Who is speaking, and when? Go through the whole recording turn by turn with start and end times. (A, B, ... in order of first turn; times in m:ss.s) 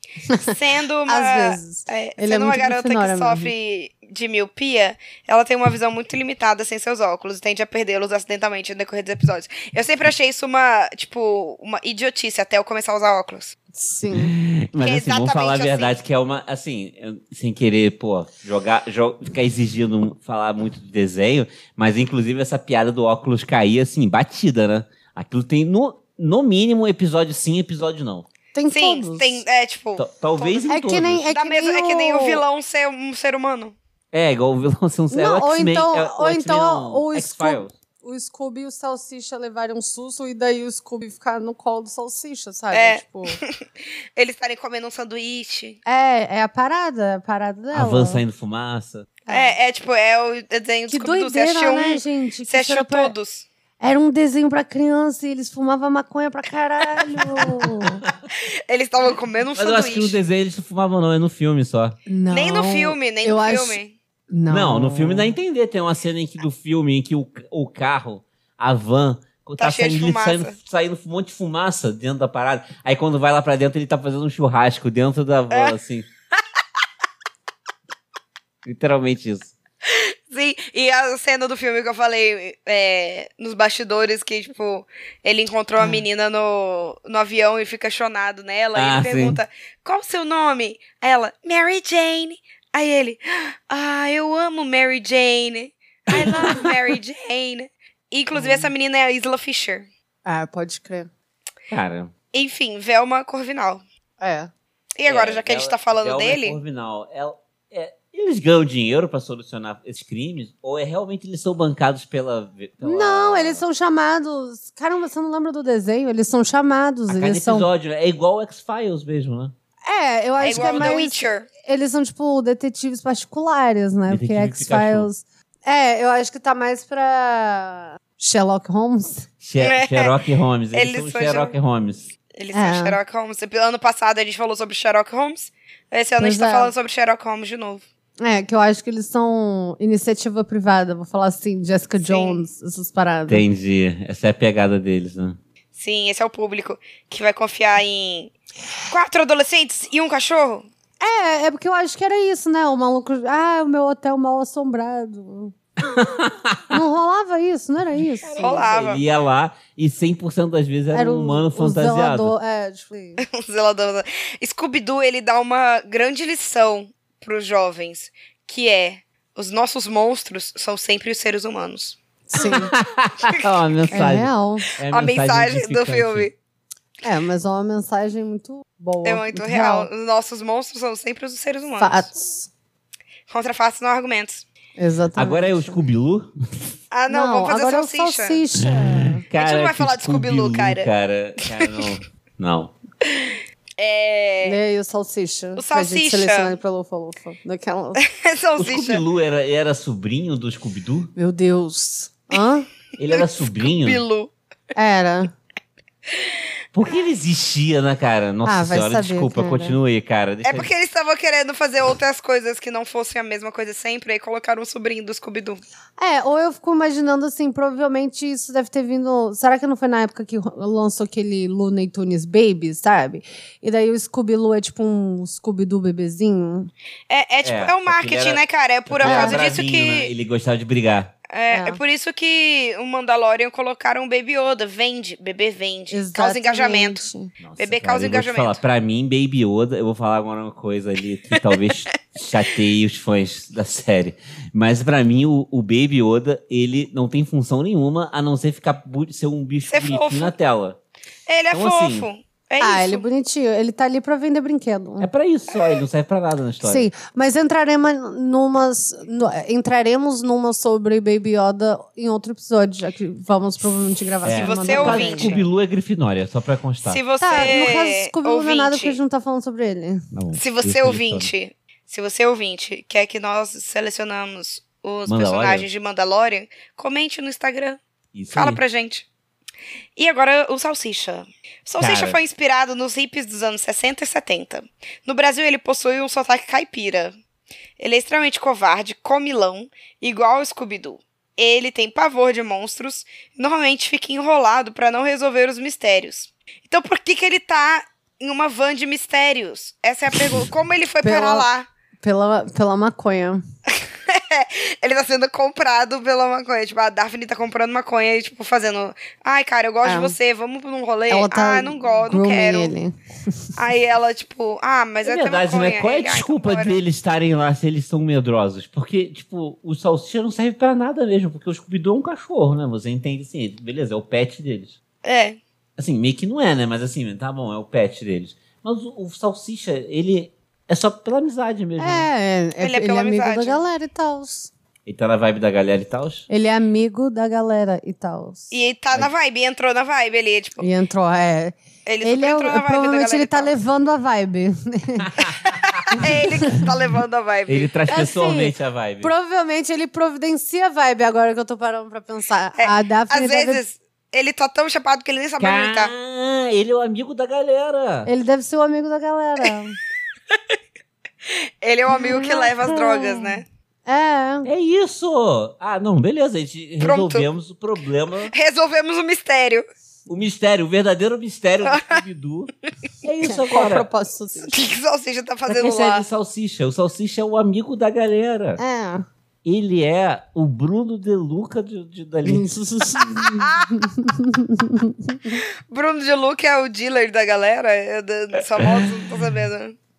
0:00.3-0:00.5 A
0:00.4-0:13.5 B
0:01.0-0:03.5 A
0:13.7-0:14.3 A
0:14.1-0:28.3 C
0:14.8-0:16.0 B
0:28.5-0:29.4 A
0:28.7-0:30.7 B
0:30.0-0:31.3 C
0:30.7-0:32.4 A
0:31.3-0:33.8 B
0:34.1-0:37.7 C
0:35.1-0:43.4 A
0:42.7-0:43.6 B
0:44.2-0:45.8 B
0:45.8-0:48.2 A
0:47.7-0:49.1 C
0:49.3-0:49.6 A
0:49.3-0:53.5 B
0:50.9-0:53.1 A
0:53.8-0:58.0 A
0:58.4-1:00.2 B
0:59.5-1:02.0 C
1:02.1-1:03.8 A
1:02.3-1:03.9 B
1:04.3-1:05.3 A
1:04.5-1:16.0 C
1:09.6-1:10.6 B
1:18.6-1:19.5 C
1:19.9-1:39.9 B
1:28.7-1:29.4 C
1:36.1-1:36.7 C
1:38.3-1:38.7 A
1:40.2-1:41.1 A
1:41.7-1:42.1 C
1:42.3-1:43.8 B
1:44.2-1:44.5 A
1:45.0-1:46.6 B
1:45.0-1:53.6 C
1:52.8-1:57.7 A
1:57.1-1:59.5 C
1:59.8-2:09.3 A
2:00.4-2:01.5 B
2:00.5-2:00.9 C
2:04.1-2:05.1 C
2:09.4-2:12.1 C
2:09.6-2:10.1 B
2:10.7-2:11.5 B
2:12.4-2:17.8 B
2:12.5-2:13.0 A
2:16.2-2:16.7 A
2:18.2-2:23.4 A
2:22.0-2:22.4 B
2:23.3-2:25.4 C
2:25.8-2:28.3 B
2:28.9-2:30.7 B
2:31.0-2:35.5 A
2:35.9-2:36.8 C
2:36.7-2:38.7 A
2:38.2-2:42.3 C
2:38.4-2:39.0 B
2:40.9-2:43.2 A
2:43.2-2:52.5 B
2:52.3-2:52.7 A
2:52.4-2:56.3 C
2:53.9-2:54.7 A
2:54.9-2:56.3 B
2:57.0-2:59.9 A
2:59.0-3:02.1 B
3:01.8-3:02.5 A
3:03.3-3:04.4 B
3:04.8-3:05.8 A
3:05.1-3:06.8 C
3:06.9-3:08.4 B
3:07.1-3:09.2 A
3:09.2-3:12.7 C
3:09.4-3:10.9 B
3:11.6-3:11.9 B
3:13.0-3:14.6 B
3:14.4-3:18.0 A
3:15.6-3:16.6 B
3:18.0-3:19.0 B
3:18.6-3:21.1 C
3:21.2-3:22.7 A
3:23.0-3:24.0 C
3:23.0-3:24.3 B
3:24.8-3:25.3 A
3:26.7-3:30.7 C
3:28.4-3:29.8 A
3:30.4-3:35.6 B
3:36.0-3:46.7 A
3:47.1-3:50.1 B
3:47.4-3:51.1 C
3:49.0-3:49.4 A
3:51.3-3:57.0 B
3:51.5-3:51.8 A
3:55.9-3:57.3 A
3:57.4-4:10.8 C
3:57.6-3:58.6 B
4:09.7-4:10.3 B
4:11.3-4:13.0 B
4:11.5-4:12.1 C
4:12.6-4:15.1 A
4:15.0-4:16.9 C
4:16.6-4:25.4 A
4:24.2-4:27.6 C
4:24.3-4:25.5 B
4:26.8-4:29.0 B
4:27.2-4:30.1 A
4:30.1-4:31.3 C
4:30.4-4:37.8 B
4:35.0-4:35.7 C
4:38.1-4:38.6 C
4:38.3-4:39.0 B
4:40.0-4:47.1 B
4:41.8-4:42.2 C
4:47.8-5:01.7 B
5:01.0-5:01.5 A
5:02.0-5:03.4 A
5:03.7-5:12.7 B
5:09.8-5:10.1 A
5:11.1-5:13.5 A
5:13.6-5:16.8 B
5:15.0-5:24.8 C
5:25.0-5:25.4 B
5:25.8-5:32.1 C
5:31.8-5:34.5 A
5:32.6-5:33.6 B
5:34.8-5:36.3 C
5:36.3-5:38.5 A
5:38.5-5:40.7 B
5:40.6-5:45.3 A
5:41.8-5:43.5 B
5:45.0-5:46.0 C
5:45.9-5:47.7 B
5:47.5-5:49.1 C
5:47.9-5:53.6 A
5:52.6-5:55.9 B
5:55.4-5:58.1 C
5:58.0-5:59.8 A
6:01.3-6:03.4 B
6:01.9-6:04.5 A
6:04.4-6:08.3 C
6:06.8-6:07.3 B
6:08.3-6:09.6 B
6:10.1-6:12.5 C
6:11.6-6:12.0 B
6:13.0-6:13.9 C
6:13.0-6:14.6 A
6:14.5-6:16.0 B
6:15.5-6:18.6 C
6:18.6-6:19.0 A
6:19.4-6:22.5 C
6:22.2-6:25.4 A
6:25.3-6:29.8 B
6:28.6-6:28.9 C